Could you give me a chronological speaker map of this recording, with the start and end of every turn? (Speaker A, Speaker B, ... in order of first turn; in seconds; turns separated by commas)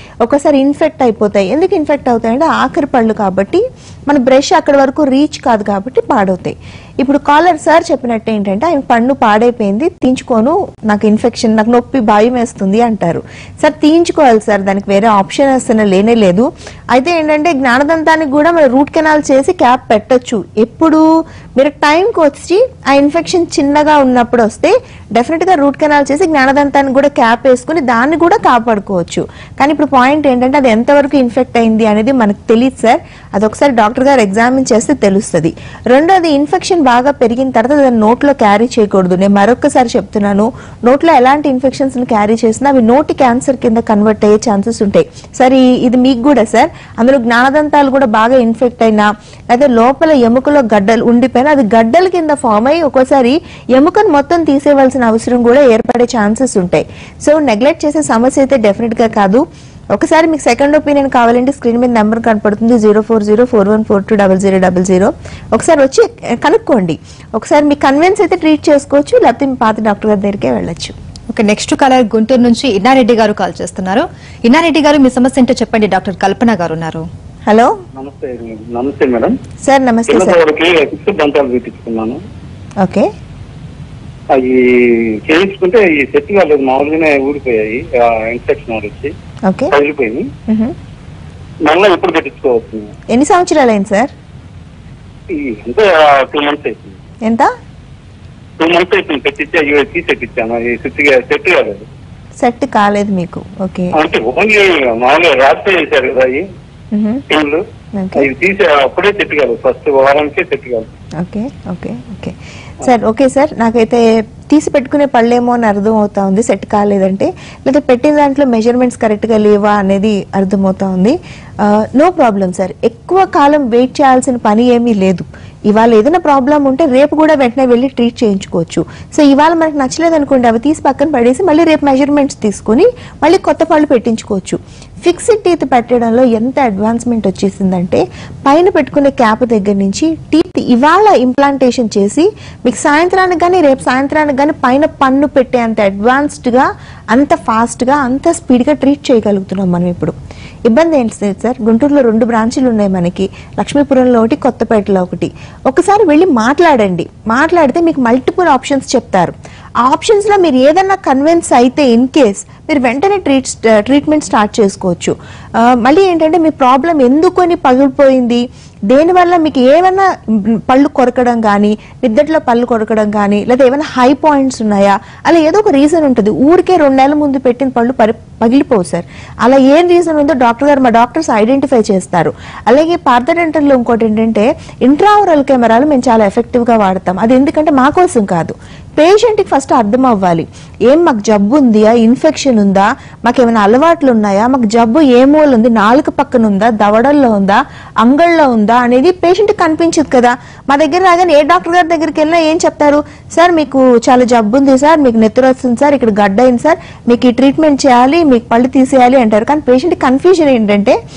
Speaker A: 0.2-21.0, Speaker A: 21.6-70.9, Speaker B: 71.3-77.0, Speaker A: 77.5-77.8, Speaker C: 78.0-79.4, Speaker A: 79.6-80.4, Speaker C: 80.1-82.2, Speaker A: 82.8-83.1, Speaker C: 84.3-89.1, Speaker A: 89.5-89.7, Speaker C: 89.7-90.3, Speaker A: 90.5-90.8, Speaker C: 91.6-92.9, Speaker A: 93.1-94.1, Speaker C: 95.3-97.0, Speaker A: 97.2-97.5, Speaker C: 98.6-101.8, Speaker A: 102.4-103.9, Speaker C: 104.0-106.5, Speaker A: 106.9-107.2, Speaker C: 107.3-107.6, Speaker A: 107.9-108.3, Speaker C: 108.2-110.8, Speaker A: 111.2-150.1, Speaker A: 150.7-211.0